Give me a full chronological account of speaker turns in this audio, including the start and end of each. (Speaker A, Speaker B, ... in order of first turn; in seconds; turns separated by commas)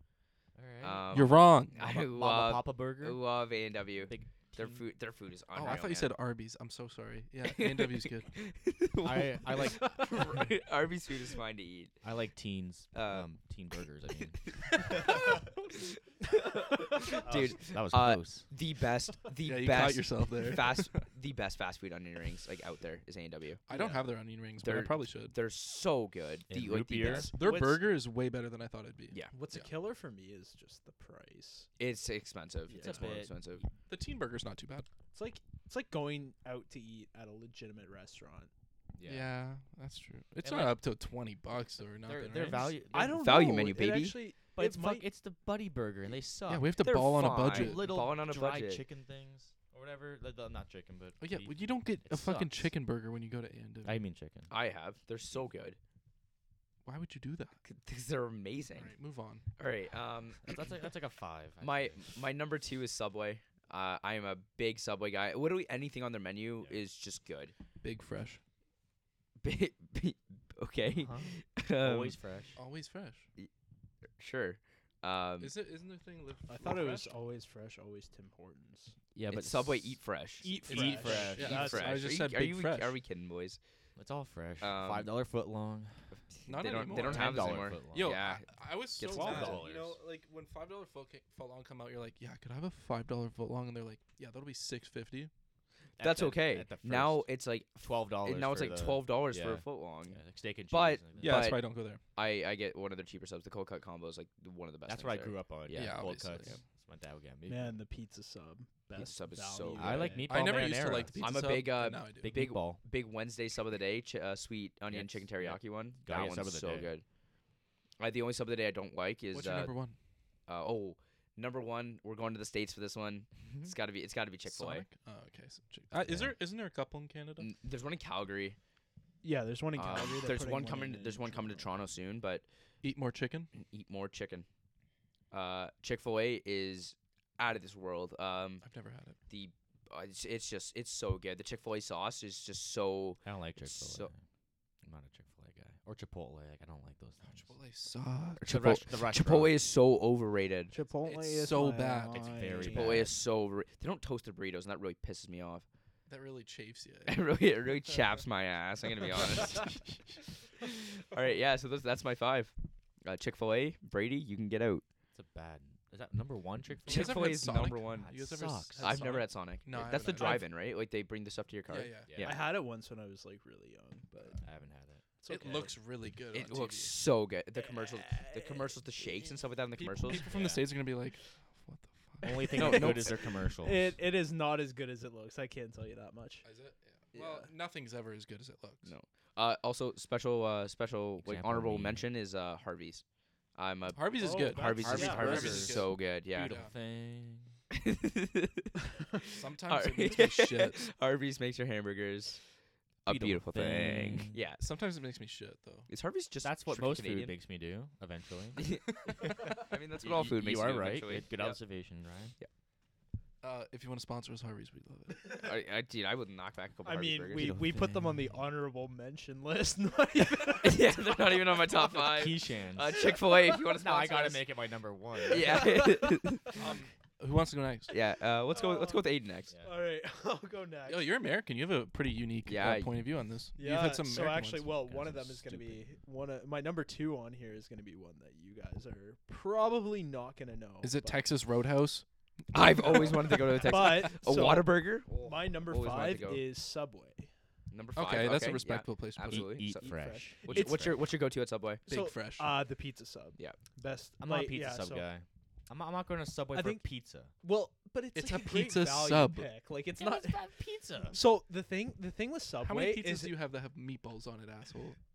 Speaker A: 0.5-3.2, Speaker B: 0.8-6.1, Speaker C: 1.1-1.8, Speaker A: 4.0-4.8, Speaker C: 5.5-8.3, Speaker B: 7.4-12.0, Speaker A: 9.0-10.4, Speaker D: 9.6-10.4, Speaker A: 12.0-15.3, Speaker B: 12.9-13.3, Speaker B: 14.3-23.6, Speaker A: 17.2-18.5, Speaker C: 19.4-20.9, Speaker C: 23.7-25.4, Speaker A: 23.7-24.0, Speaker B: 24.6-27.3, Speaker A: 26.5-27.3, Speaker D: 27.1-27.9, Speaker C: 27.3-29.7, Speaker D: 29.3-31.7, Speaker B: 31.8-33.6, Speaker A: 32.7-33.3, Speaker D: 32.7-33.1, Speaker C: 33.9-34.9, Speaker D: 35.1-38.5, Speaker A: 38.9-39.3, Speaker C: 39.0-42.8, Speaker A: 40.4-40.8, Speaker A: 42.0-43.2, Speaker D: 42.9-45.0, Speaker B: 43.1-44.2, Speaker A: 44.6-46.7, Speaker C: 46.5-47.8, Speaker B: 46.8-48.8, Speaker A: 47.4-52.7, Speaker C: 51.2-53.9, Speaker A: 53.8-54.5, Speaker B: 54.5-55.8, Speaker C: 56.8-57.6, Speaker B: 57.6-58.9, Speaker C: 58.8-59.4, Speaker B: 59.6-60.4, Speaker A: 60.4-62.1, Speaker B: 61.6-67.5, Speaker C: 67.8-68.4, Speaker B: 69.4-72.2, Speaker A: 70.9-72.6, Speaker C: 72.5-73.2, Speaker B: 74.2-75.5, Speaker C: 75.4-77.1, Speaker D: 76.5-79.0, Speaker A: 79.1-80.0, Speaker B: 79.3-83.6, Speaker D: 80.4-82.0, Speaker A: 80.5-82.1, Speaker C: 80.8-83.0, Speaker A: 84.0-86.1, Speaker B: 84.6-85.1, Speaker B: 86.3-89.6, Speaker C: 86.5-95.3, Speaker A: 86.7-88.1, Speaker A: 89.1-90.0, Speaker A: 96.0-97.2, Speaker B: 96.0-100.2, Speaker A: 97.8-101.5, Speaker B: 100.7-101.6, Speaker C: 101.2-102.0, Speaker B: 102.1-106.6, Speaker A: 104.9-107.8, Speaker C: 105.7-106.5, Speaker D: 107.5-111.1, Speaker B: 109.0-110.1, Speaker A: 109.8-111.2, Speaker C: 110.2-112.3, Speaker B: 111.2-117.0, Speaker A: 112.2-112.8, Speaker A: 114.9-116.9, Speaker B: 118.0-119.7, Speaker C: 119.3-120.0, Speaker B: 120.5-124.9, Speaker A: 123.5-123.7, Speaker C: 124.5-127.5, Speaker A: 126.1-126.3, Speaker B: 127.4-128.6, Speaker D: 129.2-131.6, Speaker B: 129.8-132.4, Speaker C: 132.8-133.5, Speaker B: 133.5-134.4, Speaker B: 135.3-138.6, Speaker C: 138.6-139.2, Speaker B: 139.3-144.1, Speaker A: 143.2-144.2, Speaker A: 144.8-147.5, Speaker C: 147.2-148.8, Speaker A: 148.4-149.6, Speaker B: 148.4-150.7, Speaker D: 150.7-153.1, Speaker C: 151.0-152.2, Speaker A: 152.1-153.1, Speaker B: 152.7-155.6, Speaker C: 156.1-157.2, Speaker B: 157.1-159.8, Speaker B: 160.6-162.5, Speaker B: 163.0-164.8, Speaker A: 165.1-169.1, Speaker B: 166.9-168.2, Speaker C: 166.9-170.5, Speaker B: 168.7-172.4, Speaker D: 170.2-170.4, Speaker C: 171.7-172.2, Speaker A: 172.1-172.3, Speaker D: 172.2-174.4, Speaker A: 174.4-175.0, Speaker D: 175.2-175.8, Speaker C: 175.3-176.9, Speaker B: 176.3-180.3, Speaker D: 177.6-179.3, Speaker C: 179.8-182.2, Speaker A: 180.2-180.7, Speaker A: 182.2-183.9, Speaker D: 182.4-186.4, Speaker B: 182.6-183.2, Speaker C: 186.4-188.9, Speaker D: 187.1-187.5, Speaker B: 188.8-193.0, Speaker A: 191.2-192.0, Speaker B: 193.5-196.6, Speaker C: 193.9-196.7, Speaker D: 194.2-195.6, Speaker A: 194.5-197.5, Speaker B: 197.7-202.4, Speaker C: 199.3-200.9, Speaker B: 203.0-204.6, Speaker A: 203.1-204.4, Speaker C: 204.6-205.9, Speaker B: 205.9-207.3, Speaker A: 206.4-212.3, Speaker B: 208.6-211.6, Speaker C: 213.4-215.5, Speaker B: 215.3-217.6, Speaker D: 216.8-221.0, Speaker A: 217.3-218.1, Speaker B: 220.6-224.5, Speaker D: 221.6-222.0, Speaker A: 221.9-223.1, Speaker A: 223.7-225.8, Speaker B: 225.3-226.6, Speaker D: 225.3-226.2, Speaker C: 226.6-227.9, Speaker B: 227.9-229.5, Speaker D: 228.5-229.1, Speaker D: 229.6-231.2, Speaker C: 230.8-235.8, Speaker B: 232.4-232.9, Speaker D: 233.6-241.2, Speaker A: 234.9-235.4, Speaker C: 240.8-242.0, Speaker B: 242.5-246.4, Speaker D: 242.8-247.3, Speaker B: 247.7-251.8, Speaker C: 247.9-249.6, Speaker A: 249.3-251.0, Speaker D: 249.8-251.0, Speaker C: 251.9-252.5, Speaker D: 251.9-255.1, Speaker A: 254.2-257.3, Speaker D: 256.5-256.8, Speaker D: 257.4-260.5, Speaker C: 258.1-259.5, Speaker A: 260.0-261.2, Speaker D: 261.1-263.3, Speaker C: 262.6-265.0